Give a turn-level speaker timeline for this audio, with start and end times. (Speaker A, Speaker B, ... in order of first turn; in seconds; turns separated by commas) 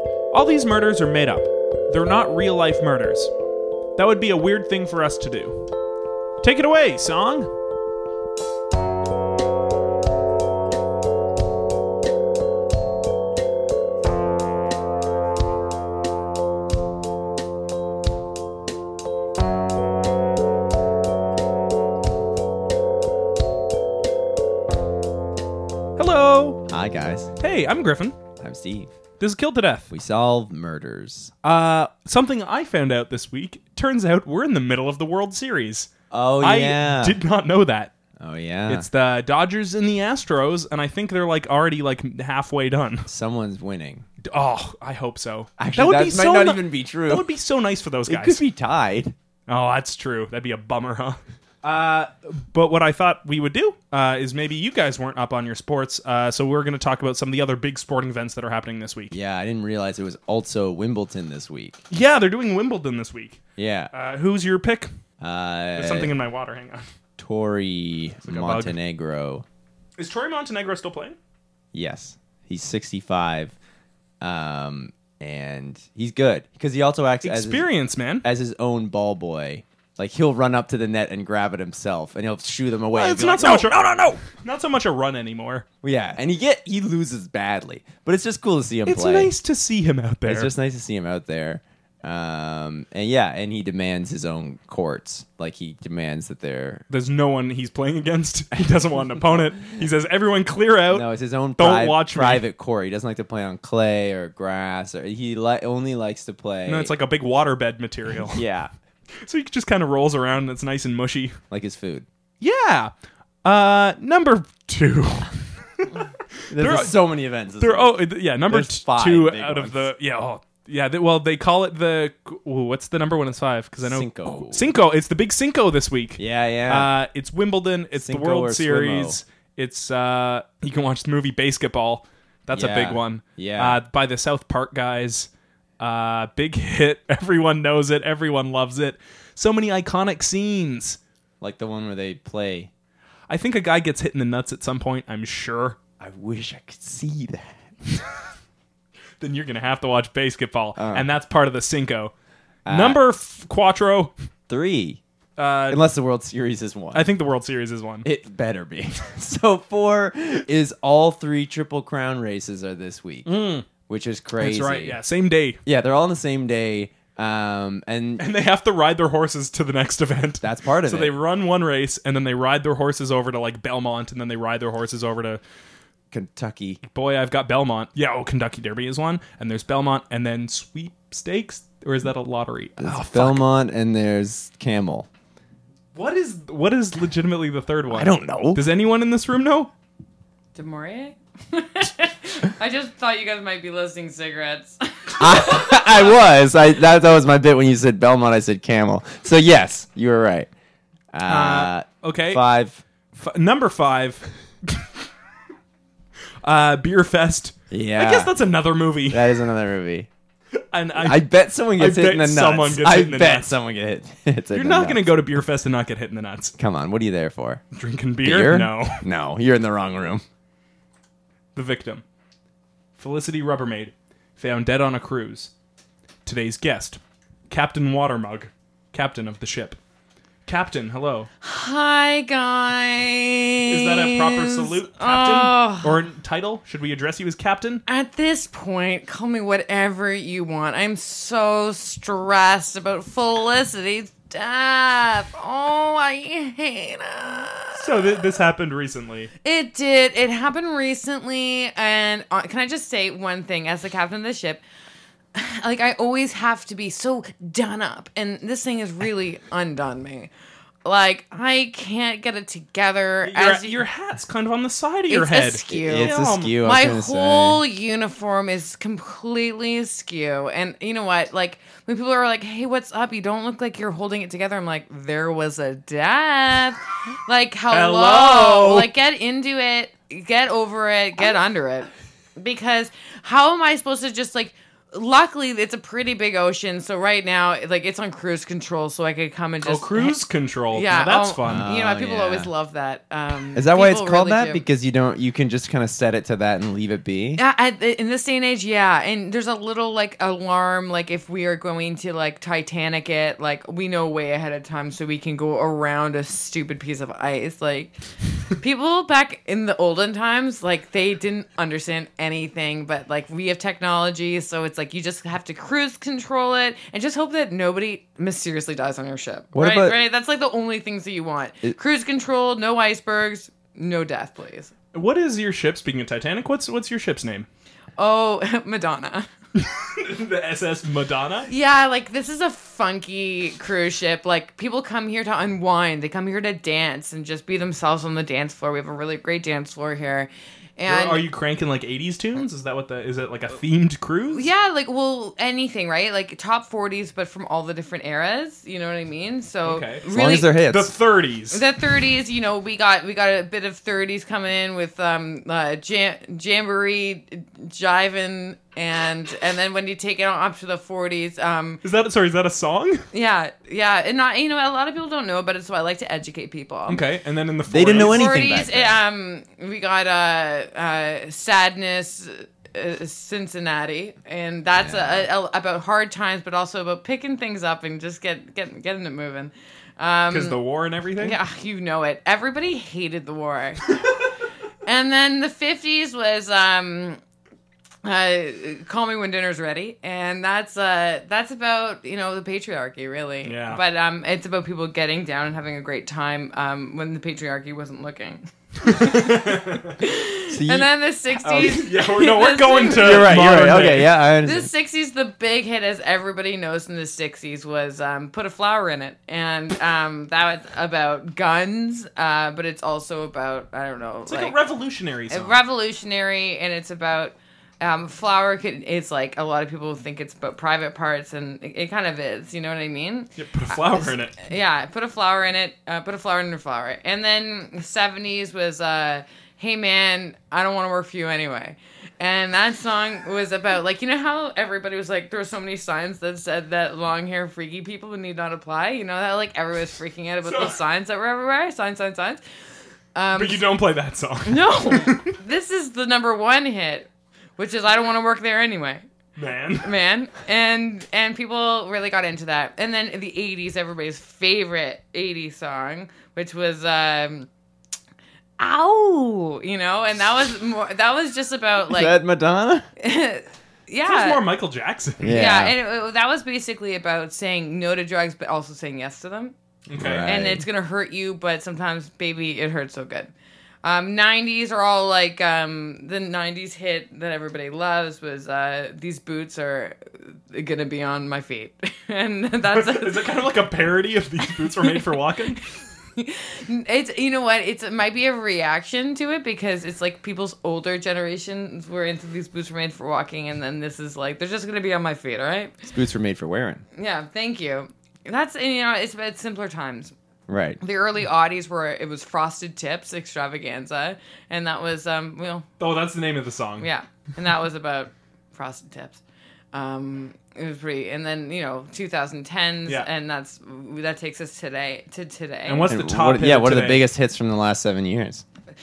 Speaker A: 0.3-3.3, Speaker A: 4.0-5.6, Speaker A: 6.4-7.5, Speaker A: 26.0-26.6, Speaker B: 26.7-27.3, Speaker A: 27.4-28.2, Speaker B: 28.4-28.9, Speaker A: 29.2-29.9, Speaker B: 29.9-31.3, Speaker A: 31.4-37.9, Speaker B: 36.1-37.2, Speaker B: 38.2-38.9, Speaker A: 38.7-43.1, Speaker B: 43.1-44.0, Speaker A: 44.2-48.4, Speaker B: 45.6-47.3, Speaker B: 48.1-49.1, Speaker A: 49.5-59.1, Speaker B: 59.1-61.8, Speaker A: 61.9-63.4, Speaker B: 63.6-63.9, Speaker A: 63.9-64.9, Speaker B: 65.2-66.1, Speaker A: 65.8-66.8, Speaker B: 67.2-69.4, Speaker A: 68.3-68.7, Speaker A: 70.0-71.2, Speaker B: 71.7-73.5, Speaker B: 74.2-77.7, Speaker A: 77.2-78.2, Speaker B: 78.2-83.7, Speaker A: 82.9-85.6, Speaker B: 85.8-89.3, Speaker A: 88.8-90.5, Speaker B: 90.2-96.8, Speaker A: 96.9-102.4, Speaker B: 100.9-106.9, Speaker A: 106.7-108.5, Speaker B: 108.3-108.7, Speaker A: 109.2-111.4, Speaker B: 111.5-112.0, Speaker A: 112.4-112.9, Speaker A: 113.4-117.0, Speaker B: 116.5-119.9, Speaker A: 117.6-135.3, Speaker B: 123.8-124.7, Speaker B: 126.2-126.9, Speaker B: 128.0-129.2, Speaker B: 132.5-133.8, Speaker A: 135.8-141.0, Speaker B: 141.4-142.7, Speaker A: 143.3-145.8, Speaker B: 146.0-147.6, Speaker A: 149.2-152.1, Speaker B: 150.8-151.1, Speaker B: 152.7-153.0, Speaker A: 152.7-154.1, Speaker B: 154.5-155.0, Speaker A: 155.4-155.8, Speaker B: 155.7-157.1, Speaker A: 156.9-158.1, Speaker B: 158.0-165.0, Speaker A: 163.2-163.7, Speaker A: 164.4-165.6, Speaker B: 165.7-168.2, Speaker A: 168.2-175.4, Speaker B: 170.4-171.1, Speaker B: 176.1-176.8, Speaker A: 176.9-183.5, Speaker B: 182.8-185.1, Speaker A: 185.9-189.7, Speaker B: 187.9-188.6, Speaker C: 190.5-195.9, Speaker B: 195.2-200.5, Speaker B: 201.1-202.8, Speaker A: 201.3-202.4, Speaker A: 203.1-204.8, Speaker A: 206.4-209.4, Speaker B: 207.7-208.3, Speaker B: 209.1-210.1, Speaker A: 210.7-211.2, Speaker B: 210.9-215.1, Speaker A: 211.8-213.6, Speaker A: 214.5-216.5, Speaker B: 216.6-217.6, Speaker A: 217.7-219.0, Speaker B: 218.2-220.2, Speaker A: 221.5-222.0, Speaker A: 223.0-225.5, Speaker A: 226.2-229.8, Speaker A: 230.4-231.3, Speaker C: 231.4-236.0, Speaker A: 233.7-237.8, Speaker C: 237.8-248.0, Speaker A: 247.7-249.3, Speaker C: 249.4-254.6, Speaker C: 255.3-260.3, Speaker C: 260.8-263.8, Speaker A: 263.2-266.5, Speaker C: 265.1-294.6, Speaker B: 265.7-267.6, Speaker A: 277.7-278.9, Speaker A: 289.6-291.7, Speaker B: 291.4-292.5, Speaker B: 293.5-297.4, Speaker C: 297.4-308.0, Speaker C: 308.5-324.7, Speaker B: 319.5-320.0, Speaker A: 324.9-327.5, Speaker C: 328.0-329.3, Speaker A: 329.6-331.5, Speaker C: 331.5-341.2, Speaker A: 340.9-344.5, Speaker C: 344.3-350.5, Speaker A: 349.6-351.6, Speaker B: 350.1-350.9, Speaker C: 351.5-361.8, Speaker A: 361.8-363.1, Speaker C: 363.1-367.0, Speaker A: 366.9-368.4, Speaker B: 367.7-369.0, Speaker C: 367.8-380.6, Speaker B: 374.8-375.3, Speaker A: 380.3-381.4, Speaker C: 381.2-383.9, Speaker C: 384.8-387.2, Speaker C: 388.0-403.7, Speaker A: 393.4-393.8, Speaker A: 398.8-400.0, Speaker B: 400.5-400.9, Speaker B: 401.4-401.8, Speaker A: 401.5-404.2, Speaker B: 402.9-404.7, Speaker C: 404.4-414.6, Speaker A: 414.2-415.6, Speaker C: 415.3-442.4, Speaker A: 423.4-424.4, Speaker A: 440.4-440.8, Speaker C: 443.1-443.6, Speaker A: 443.3-445.4, Speaker C: 444.4-447.1, Speaker C: 447.6-449.0, Speaker A: 449.4-449.9, Speaker C: 449.8-457.5, Speaker C: 458.6-462.2, Speaker B: 461.9-462.9, Speaker C: 463.0-464.4, Speaker A: 464.0-465.4, Speaker B: 465.2-465.8, Speaker C: 465.3-469.5, Speaker A: 469.9-470.3, Speaker B: 469.9-470.6, Speaker C: 470.2-473.3, Speaker C: 473.8-483.3, Speaker A: 482.7-485.6, Speaker C: 484.6-485.1, Speaker C: 486.2-495.8, Speaker B: 495.9-496.8, Speaker C: 496.9-500.1, Speaker B: 500.5-500.8, Speaker C: 500.8-505.6, Speaker A: 505.8-506.9, Speaker C: 506.8-509.2, Speaker C: 509.7-515.9, Speaker A: 515.6-517.0, Speaker B: 515.9-518.4